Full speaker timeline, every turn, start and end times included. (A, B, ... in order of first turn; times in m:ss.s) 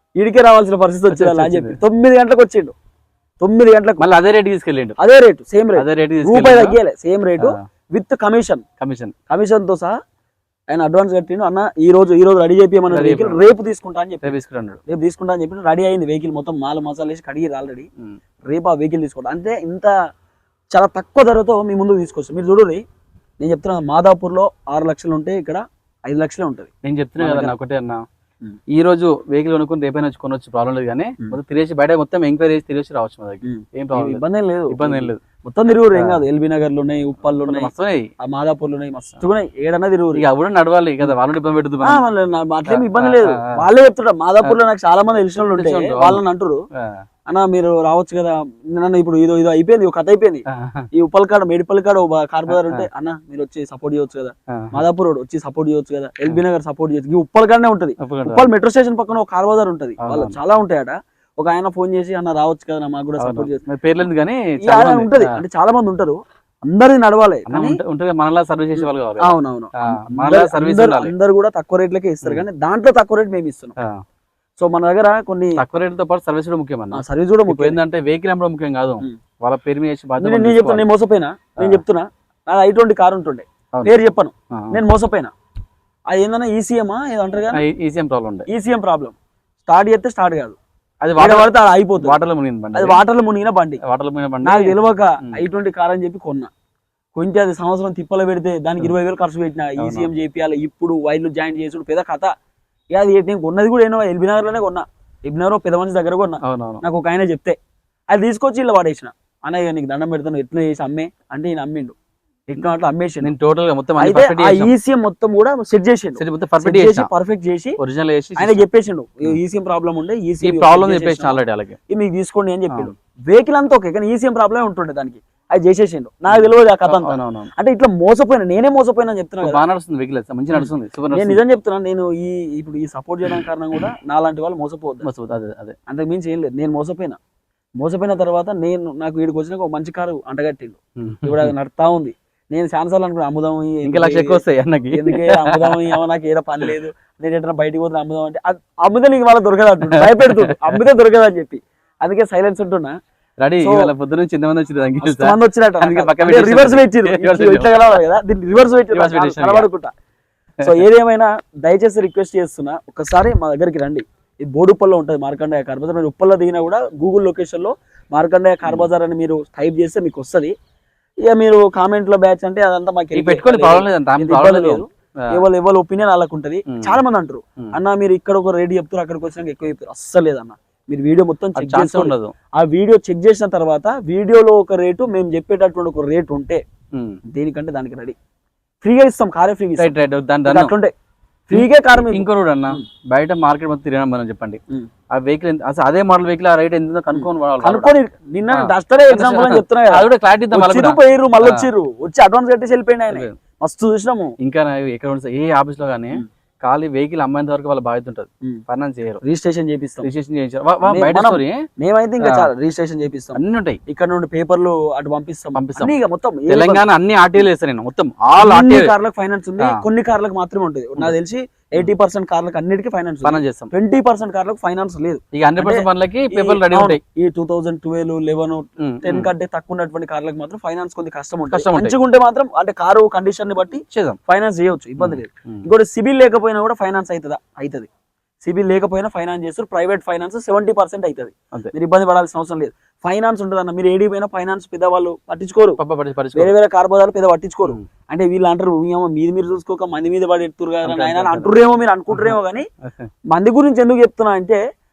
0:00.2-0:02.7 A
0:01.1-0:01.8 B
0:03.4-0:04.1 A
0:04.0-0:05.0 B
0:05.0-0:08.6 A
0:05.8-0:06.8 B
0:08.8-0:09.1 B
0:09.3-0:10.0 A
0:10.7-0:14.3 A
0:12.9-0:13.4 B
0:14.2-0:14.8 B
0:14.9-0:17.9 A
0:18.4-0:19.9 A
0:20.7-0:22.8 A
0:23.4-0:27.6 A
0:26.8-0:28.0 B
0:28.7-0:35.2 B
0:33.4-0:37.7 A
0:35.9-0:36.2 B
0:37.4-0:38.1 B
0:38.2-0:40.2 A
0:40.1-0:42.0 B
0:41.8-0:46.6 A
0:42.7-0:43.6 B
0:45.4-0:46.2 B
0:46.8-0:47.0 B
0:47.3-1:03.6 A
0:50.5-0:50.9 B
0:52.5-0:52.9 B
0:54.5-0:54.8 B
0:58.0-0:58.5 B
1:00.0-1:00.4 B
1:03.2-1:05.4 B
1:04.6-1:07.8 A
1:07.5-1:11.1 B
1:08.8-1:13.8 A
1:14.6-1:15.6 A
1:15.6-1:20.9 B
1:16.9-1:17.8 A
1:20.2-1:25.3 A
1:24.5-1:24.8 B
1:26.1-1:27.6 A
1:27.5-1:28.5 B
1:28.5-1:30.6 A
1:31.0-1:33.0 B
1:31.2-1:32.2 A
1:32.7-1:33.8 A
1:33.8-1:35.4 B
1:34.4-1:36.5 A
1:37.2-1:42.3 A
1:39.8-1:40.1 B
1:42.9-1:47.6 A
1:46.4-1:46.8 B
1:48.1-1:52.0 A
1:52.5-1:53.3 A
1:53.2-1:54.7 B
1:54.0-1:57.8 A
1:56.2-1:57.1 B
1:57.8-1:58.6 B
1:58.4-2:09.6 A
2:00.4-2:01.8 B
2:06.3-2:07.5 B
2:09.4-2:11.4 B
2:10.6-2:15.1 A
2:15.0-2:15.8 B
2:15.9-2:17.2 A
2:17.8-2:33.0 A
2:21.0-2:21.5 B
2:23.8-2:26.0 B
2:29.8-2:30.8 B
2:33.4-2:38.0 B
2:33.6-2:33.9 A
2:35.0-2:39.9 A
2:38.9-2:39.7 B
2:40.6-2:50.5 A
2:51.3-3:06.6 A
2:53.1-2:55.4 B
2:56.7-2:57.0 B
3:01.6-3:02.3 B
3:06.9-3:07.2 B
3:07.3-3:08.2 A
3:08.8-3:09.9 A
3:09.8-3:10.7 B
3:10.4-3:10.9 A
3:11.5-3:12.8 A
3:11.5-3:14.6 B
3:15.1-3:17.9 B
3:17.1-3:24.3 A
3:18.5-3:21.7 B
3:23.1-3:23.4 B
3:24.4-3:29.2 B
3:29.2-3:30.1 A
3:30.0-3:31.6 B
3:30.8-3:36.9 A
3:32.2-3:32.5 B
3:33.4-3:33.8 B
3:35.5-3:35.9 B
3:36.5-3:38.9 B
3:38.4-3:57.9 A
3:43.2-3:43.7 B
3:45.3-3:47.0 B
3:48.8-3:49.3 B
3:51.5-3:52.0 B
3:53.7-3:54.2 B
3:55.0-3:55.6 B
3:58.4-4:05.8 A
4:05.8-4:06.5 B
4:06.4-4:12.7 A
4:10.8-4:11.5 B
4:12.1-4:13.1 B
4:13.3-4:14.6 A